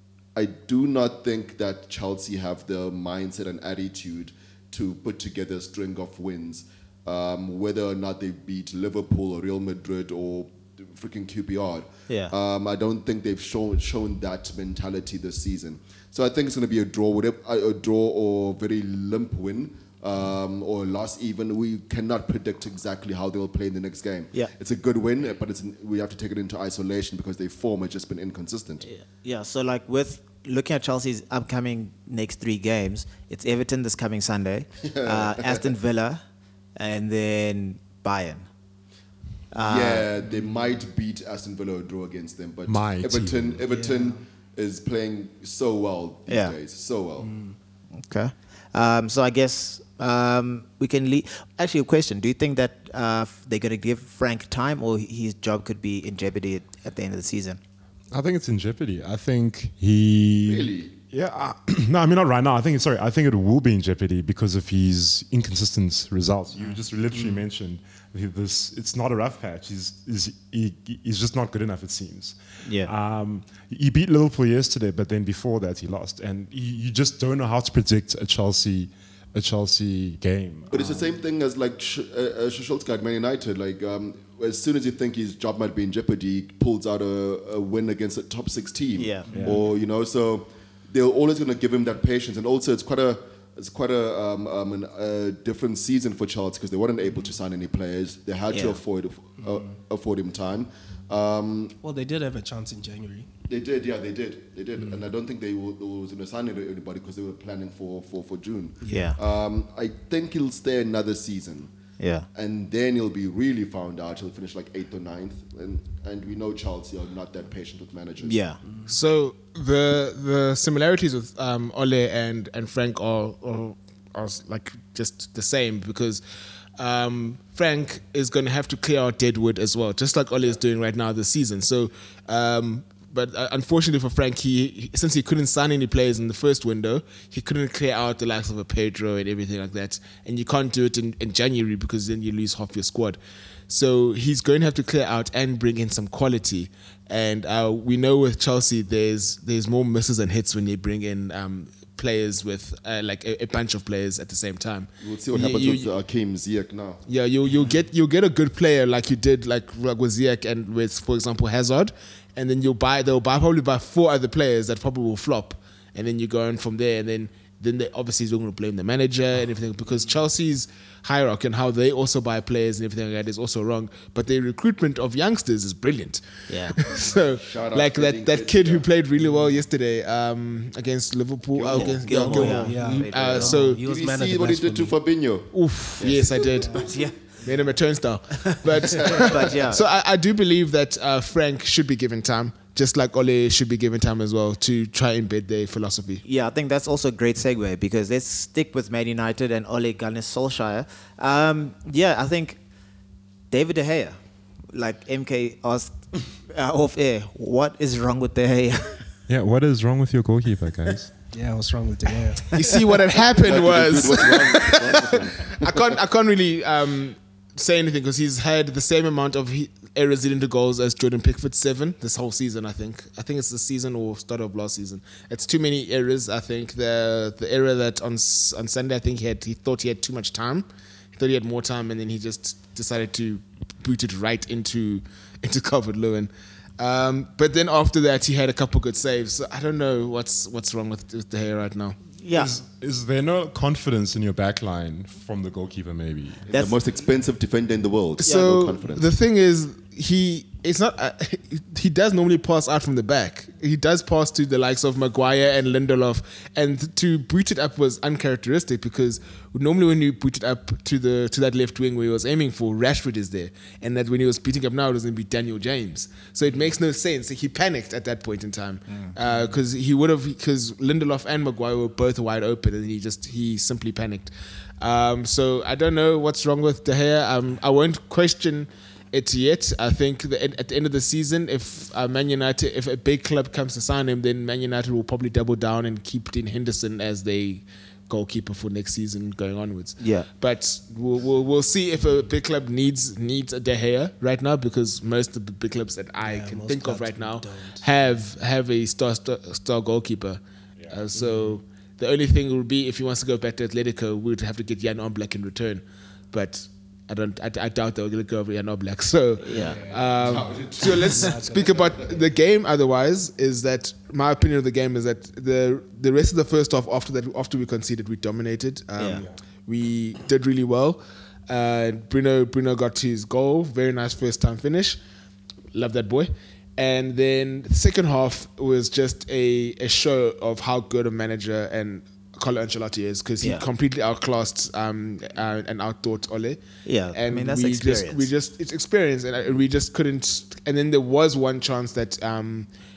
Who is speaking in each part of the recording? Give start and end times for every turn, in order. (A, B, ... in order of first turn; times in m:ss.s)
0:00.3-0:28.8 A
0:12.1-0:12.3 B
0:28.8-0:36.2 B
0:34.8-0:35.7 A
0:36.8-0:38.5 B
0:39.5-0:40.1 B
0:39.6-0:47.3 A
0:40.2-0:40.7 C
0:42.7-0:43.6 D
0:43.7-0:44.2 C
0:46.3-0:46.5 B
0:47.2-0:47.6 C
0:48.0-0:57.6 B
0:58.1-1:20.7 D
1:00.4-1:00.9 A
1:12.6-1:12.9 B
1:20.7-1:41.8 A
1:28.9-1:29.4 B
1:29.3-1:29.6 C
1:38.5-1:38.8 B
1:39.4-1:39.7 C
1:41.8-1:43.3 C
1:43.5-1:51.7 A
1:48.8-1:49.2 B
1:52.0-1:52.3 B
1:52.3-1:58.4 A
1:58.2-1:58.6 B
1:58.6-1:58.9 C
1:58.9-2:06.2 E
2:06.8-2:23.2 E
2:23.7-2:35.9 E
2:35.0-2:37.0 A
2:37.1-3:03.8 E
2:56.5-2:56.8 B
2:57.3-2:58.8 A
2:59.3-2:59.6 C
3:01.5-3:02.1 A
3:01.7-3:03.5 B
3:02.1-3:04.9 C
3:03.6-3:06.7 A
3:05.5-3:06.9 E
3:06.6-3:07.0 C
3:06.8-3:07.1 B
3:07.4-3:16.2 E
3:08.8-3:09.5 A
3:09.2-3:09.8 B
3:16.2-3:22.6 B
3:23.5-3:24.2 B
3:24.7-3:29.0 B
3:29.3-3:31.1 D
3:31.3-3:32.5 C
3:32.5-4:02.0 E
3:33.4-3:35.9 A
4:02.2-4:02.6 B
4:02.3-4:06.5 D
4:06.5-4:06.8 B
4:06.5-4:09.1 A
4:08.2-5:25.0 E
4:50.0-4:50.3 B
4:56.2-4:57.8 C
5:01.1-5:01.6 C
5:09.4-5:09.8 B
5:10.0-5:12.0 A
5:11.0-5:12.3 C
5:19.0-5:19.2 B
5:25.7-5:36.6 E
5:36.8-5:38.3 B
5:37.1-5:42.7 E